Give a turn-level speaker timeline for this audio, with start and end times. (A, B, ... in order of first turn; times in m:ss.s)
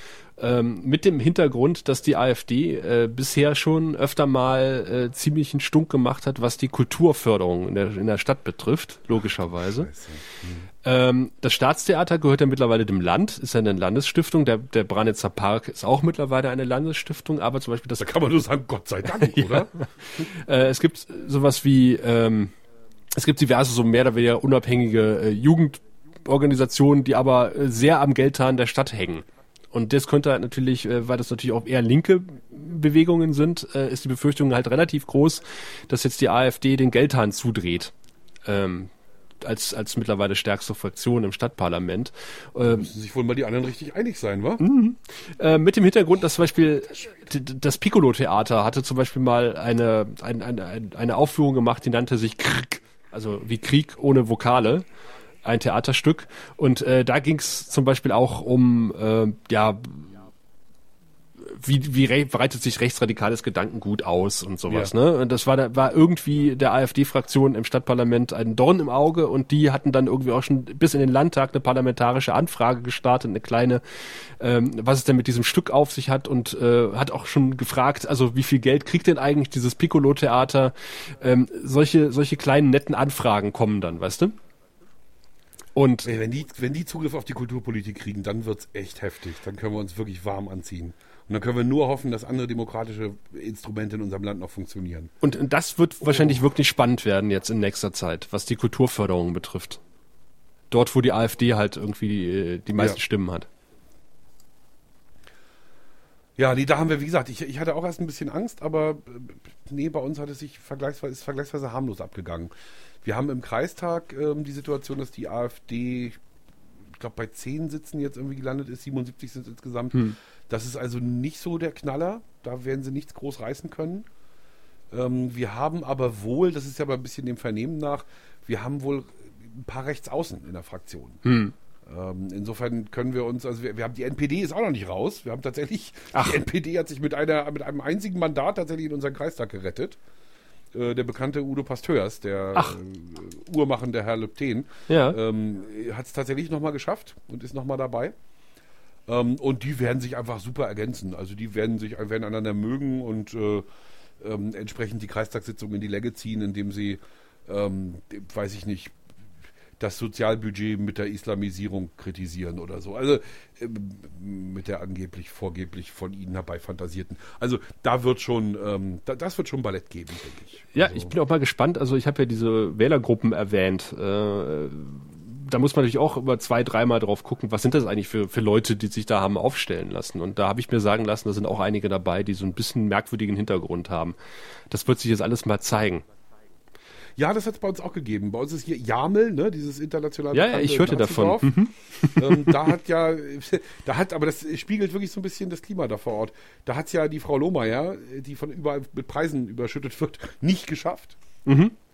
0:00.4-0:09.9 A
0:09.6-0:10.7 B
0:10.8-0:18.2 A
0:18.0-0:20.2 B
0:19.0-0:22.5 A
0:23.1-0:37.9 A
0:38.4-0:38.9 A
0:39.4-0:42.9 A
0:42.6-0:44.6 B
0:44.6-0:54.8 A
0:55.4-1:00.3 A
1:01.4-1:24.3 A
1:25.7-1:26.1 A
1:26.0-1:35.1 B
1:35.2-1:39.8 A
1:40.7-1:43.5 A
1:46.4-1:52.5 B
1:53.0-1:56.2 B
1:57.0-2:04.0 B
2:04.9-2:11.2 B
2:11.2-2:11.5 A
2:11.8-2:20.0 B
2:16.1-2:16.4 A
2:20.7-2:28.1 B
2:24.9-2:25.2 A
2:29.1-2:33.6 B
2:34.2-2:38.9 B
2:39.8-2:51.1 B
2:50.7-3:04.2 A
3:04.7-3:06.0 A
3:07.2-3:11.6 B
3:10.3-3:12.8 A
3:12.1-3:21.2 B
3:21.4-3:21.7 A